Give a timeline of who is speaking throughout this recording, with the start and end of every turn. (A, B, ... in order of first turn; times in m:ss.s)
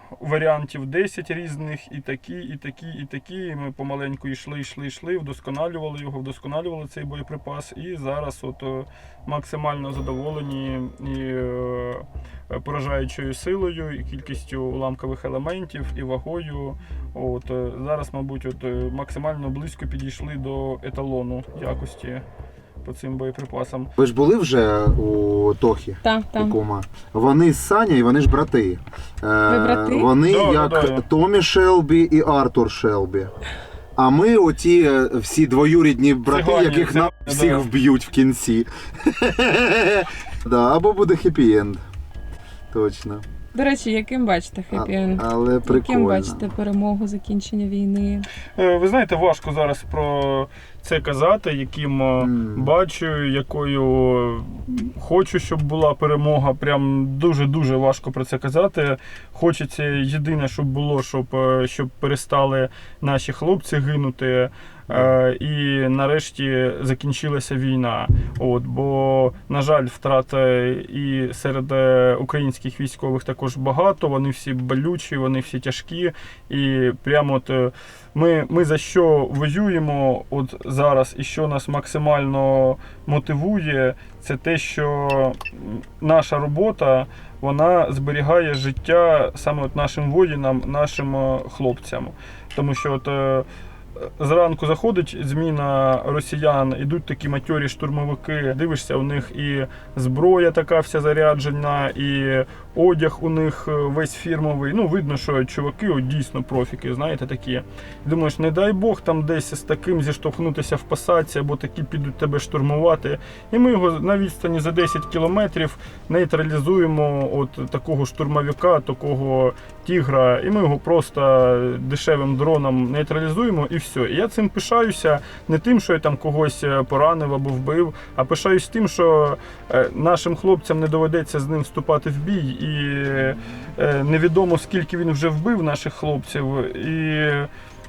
0:00.2-0:22.2 A
0:22.8-0:23.9 A
0:24.0-0:33.3 B
0:26.0-0:26.5 C
0:29.5-0:30.1 C
0:30.3-0:31.0 A
0:34.0-0:41.8 B
0:36.3-0:37.6 A
0:42.7-0:43.2 B
0:43.5-0:48.3 C
0:44.7-0:46.5 B
0:48.6-1:33.4 A
0:52.2-0:52.7 B
1:04.9-1:05.2 B
1:34.0-2:17.5 A